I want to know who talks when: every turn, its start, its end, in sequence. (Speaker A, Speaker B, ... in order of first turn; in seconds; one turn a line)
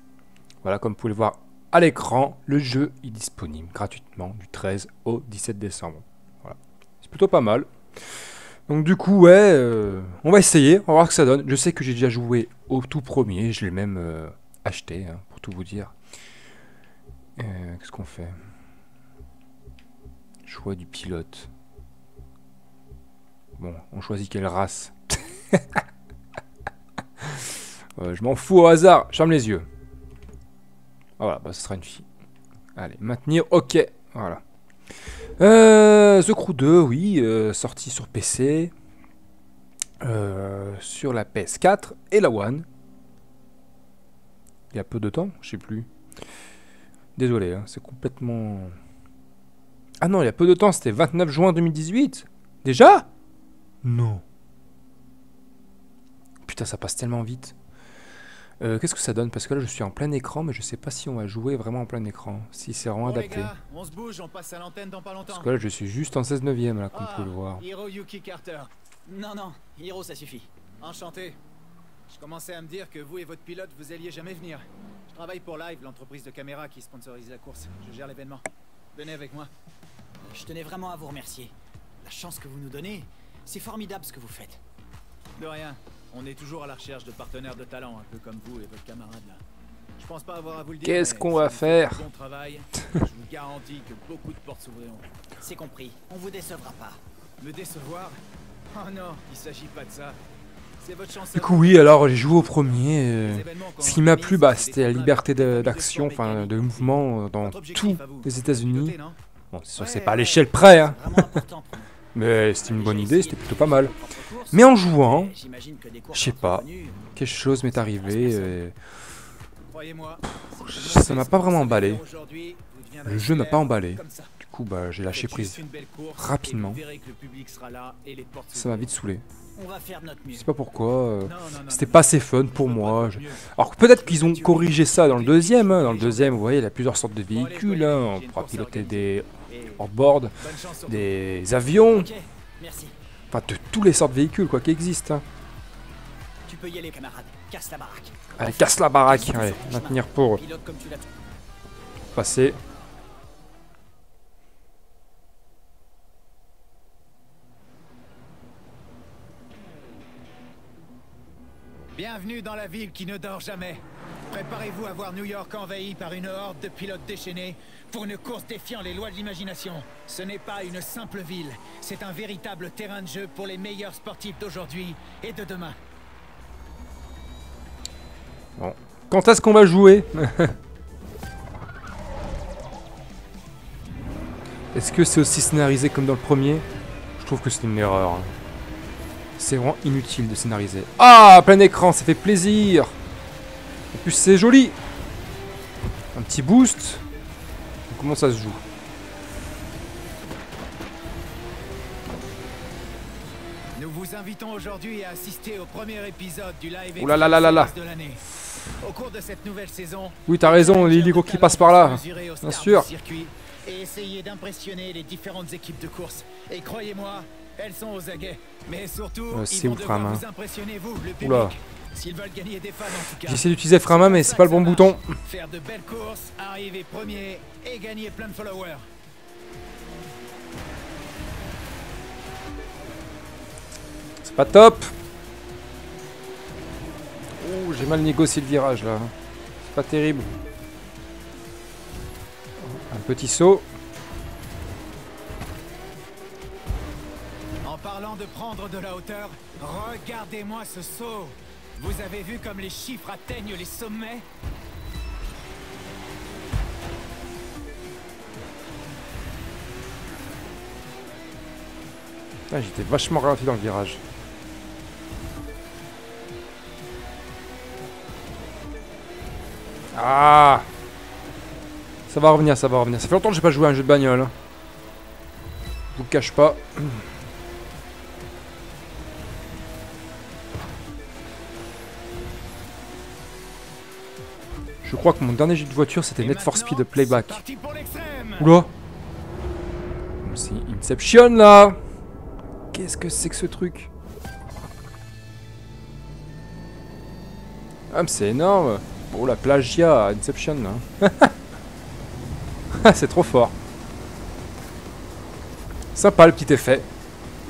Speaker A: 0.6-15.9
Speaker A: 17.4-18.4
Speaker A: 20.5-21.5
Speaker A: 23.6-25.8
Speaker A: 27.2-29.7
Speaker A: 31.2-32.1
Speaker A: 32.8-34.4
Speaker A: 35.4-38.7
Speaker A: 40.0-42.7
Speaker A: 44.7-45.9
Speaker A: 47.2-48.8
Speaker A: 50.0-53.1
Speaker A: 53.8-54.2
Speaker A: 56.5-57.6
Speaker A: 58.6-63.5
Speaker B: 63.0-65.5
Speaker A: 65.3-67.6
Speaker B: 66.9-68.7
Speaker C: 69.1-70.5
Speaker B: 70.8-71.4
Speaker B: 72.1-79.5
Speaker C: 80.3-84.6
Speaker B: 85.4-89.4
Speaker B: 90.0-95.1
Speaker A: 90.8-92.0
Speaker C: 95.4-97.0
Speaker B: 97.4-98.2
Speaker B: 98.7-100.2
Speaker B: 100.8-109.2
Speaker A: 101.3-109.0
Speaker A: 109.5-111.4
Speaker C: 109.8-111.9
Speaker A: 112.2-113.9
Speaker C: 112.6-118.6
Speaker A: 114.5-115.4
Speaker A: 116.1-118.8
Speaker B: 119.7-124.3
Speaker A: 120.7-122.0
Speaker A: 123.1-125.6
Speaker B: 125.1-128.9
Speaker A: 126.2-126.8
Speaker A: 128.5-129.2
Speaker C: 129.6-130.5
Speaker A: 130.3-142.1
Speaker B: 131.2-133.5
Speaker C: 134.1-135.2
Speaker B: 134.9-136.4
Speaker B: 137.3-139.7
Speaker B: 140.4-141.1
Speaker C: 141.9-143.0
Speaker A: 143.3-145.2
Speaker C: 146.5-151.1
Speaker A: 148.4-150.4
Speaker A: 152.2-152.6
Speaker B: 162.0-175.8
Speaker A: 178.6-180.6
Speaker A: 184.7-186.7
Speaker A: 187.2-188.3
Speaker A: 189.4-192.9
Speaker A: 193.9-194.8
Speaker A: 196.1-197.0
Speaker A: 197.9-198.6
Speaker B: 203.8-228.9
Speaker A: 207.0-207.7
Speaker A: 210.3-212.9
Speaker A: 219.3-220.2
Speaker A: 221.2-221.6
Speaker A: 223.2-225.2
Speaker A: 234.2-234.9
Speaker A: 237.4-239.1
Speaker A: 239.7-240.3
Speaker A: 242.6-243.7
Speaker B: 247.6-254.3
Speaker A: 262.5-264.0
Speaker A: 269.9-270.7
Speaker A: 272.1-274.3
Speaker A: 275.9-277.1
Speaker A: 284.8-287.4
Speaker B: 286.2-288.6
Speaker A: 288.4-288.7
Speaker A: 290.2-291.8
Speaker A: 292.7-293.9
Speaker A: 297.9-301.3
Speaker A: 302.7-303.6
Speaker A: 305.9-306.9